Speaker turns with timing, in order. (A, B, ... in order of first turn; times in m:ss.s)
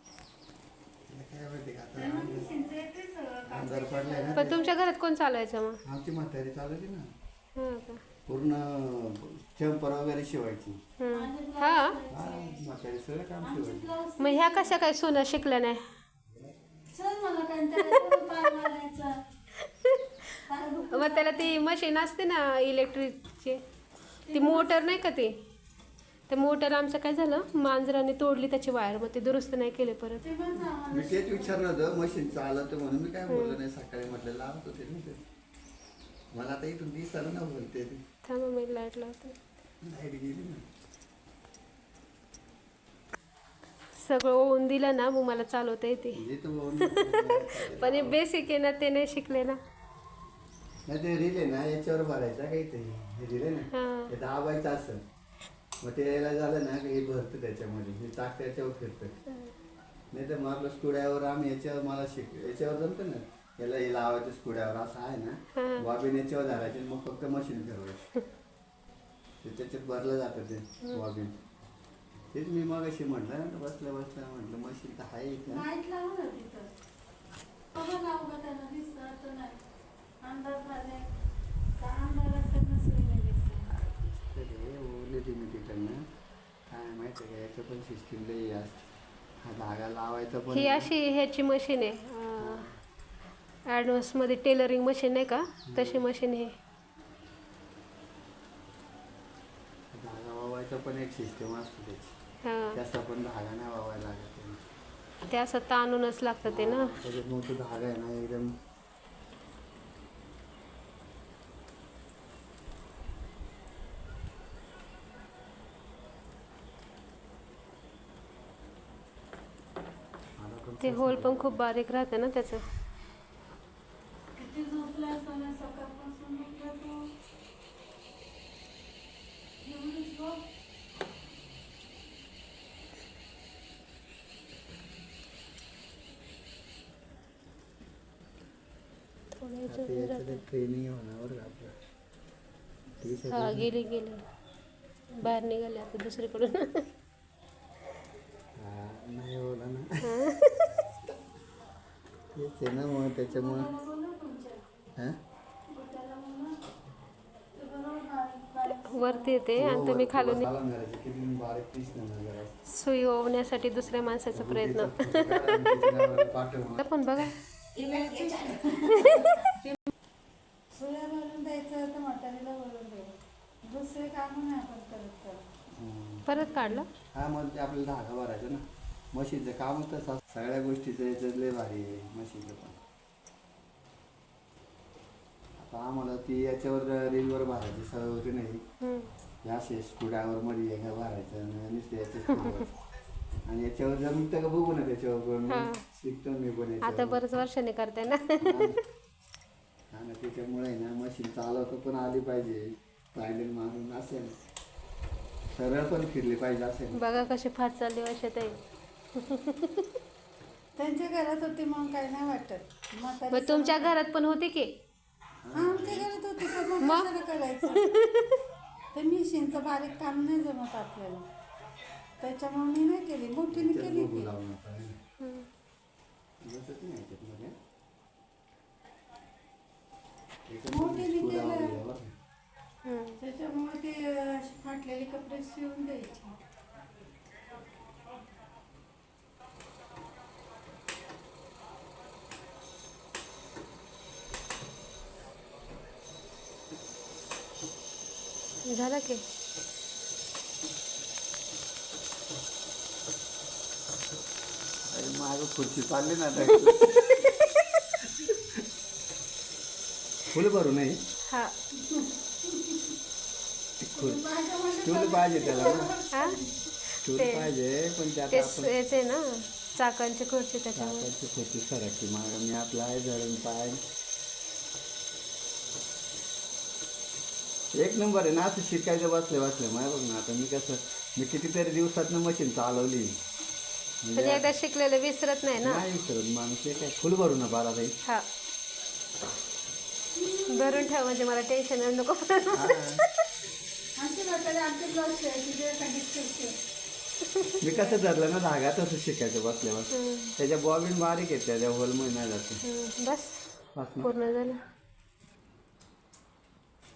0:01.1-0:02.5 A
0:02.0-0:04.8 B
0:03.5-0:04.6 A
0:04.3-0:05.8 C
0:05.8-0:07.1 A
0:07.6-0:08.0 C
0:08.3-0:10.8 A
0:11.0-0:12.0 C
0:11.1-0:12.6 B
0:12.1-0:13.9 A
0:13.4-0:14.8 B
0:14.2-0:15.8 C
0:16.9-0:19.2 B
0:20.4-0:21.6 B
0:20.9-0:23.6 C
0:24.3-0:25.0 B
0:24.3-0:25.3 C
0:26.3-0:30.2 C
0:30.2-0:32.3 B
0:30.9-0:35.2 A
0:33.3-0:33.6 C
0:36.3-0:38.0 A
0:38.2-0:39.4 C
0:39.8-0:40.6 A
0:44.0-0:46.2 C
0:46.1-0:48.2 A
0:46.8-0:49.6 C
0:50.9-0:55.0 A
0:53.7-0:54.1 C
0:55.8-0:59.2 A
1:00.1-1:08.1 A
1:05.6-1:05.9 C
1:09.4-1:11.4 A
1:12.3-1:15.6 A
1:15.5-1:16.7 B
1:17.7-1:19.6 B
1:20.2-1:21.0 B
1:21.8-1:23.7 B
1:23.7-1:26.0 A
1:26.7-1:28.9 A
1:29.4-1:30.9 A
1:30.5-1:32.7 C
1:32.4-1:32.7 A
1:33.7-1:36.5 C
1:35.7-1:36.0 A
1:39.9-1:42.2 A
1:42.4-1:42.8 C
1:42.7-1:44.6 A
1:45.3-1:46.9 C
1:46.4-1:48.5 A
2:00.4-2:01.6 A
2:00.8-2:02.6 C
2:04.3-2:07.0 B
2:09.6-2:10.4 B
2:19.4-2:20.4 C
2:19.7-2:21.7 A
2:23.0-2:23.7 A
2:23.3-2:24.2 C
2:25.2-2:26.8 C
2:28.6-2:30.2 A
2:30.0-2:30.7 C
2:32.3-2:33.7 A
2:33.3-2:34.6 B
2:35.7-2:36.6 B
2:37.5-2:39.6 B
2:38.8-2:40.5 C
2:39.5-2:42.5 A
2:42.7-2:46.0 C
2:44.3-2:46.9 A
2:46.8-2:47.3 C
2:47.7-2:49.4 B
2:48.8-2:49.6 C
2:50.7-2:55.4 B
2:55.7-2:56.2 A
2:56.2-2:56.9 C
2:57.1-3:02.8 A
3:05.6-3:08.6 A
3:08.8-3:09.1 C
3:09.4-3:12.7 A
3:13.5-3:17.2 A
3:15.5-3:15.8 C
3:16.8-3:18.7 C
3:18.4-3:18.8 A
3:19.9-3:24.4 A
3:25.5-3:27.0 A
3:26.9-3:28.6 C
3:29.2-3:29.8 C
3:30.8-3:34.0 B
3:33.3-3:34.7 C
3:35.4-3:36.1 A
3:35.5-3:37.8 B
3:36.8-3:37.1 C
3:37.7-3:38.4 C
3:38.9-3:41.2 B
3:42.2-3:44.3 B
3:43.5-3:45.0 A
3:45.2-3:45.5 C
3:46.4-3:47.5 A
3:50.5-3:52.1 A
3:50.7-3:51.8 B
3:52.8-3:53.2 C
3:53.2-3:56.3 B
4:08.7-4:09.2 C
4:14.9-4:17.4 A
4:17.1-4:17.6 C
4:20.3-4:21.0 A
4:21.8-4:22.9 B
4:23.8-4:24.2 A
4:23.9-4:26.7 B
4:24.8-4:25.9 A
4:26.1-4:26.4 C
4:26.9-4:27.5 C
4:27.0-4:28.7 A
4:28.3-4:31.1 C
4:30.8-4:33.8 A
4:37.7-4:43.2 A
4:44.0-4:44.5 A
4:44.2-4:45.8 C
4:45.6-4:47.9 A
4:50.1-4:50.9 B
4:50.5-4:53.0 C
4:52.5-4:53.0 A
4:54.0-4:56.5 B
4:57.4-4:57.9 C
4:57.6-5:02.6 A
4:59.9-5:00.3 C
5:02.6-5:04.6 C
5:03.7-5:04.1 A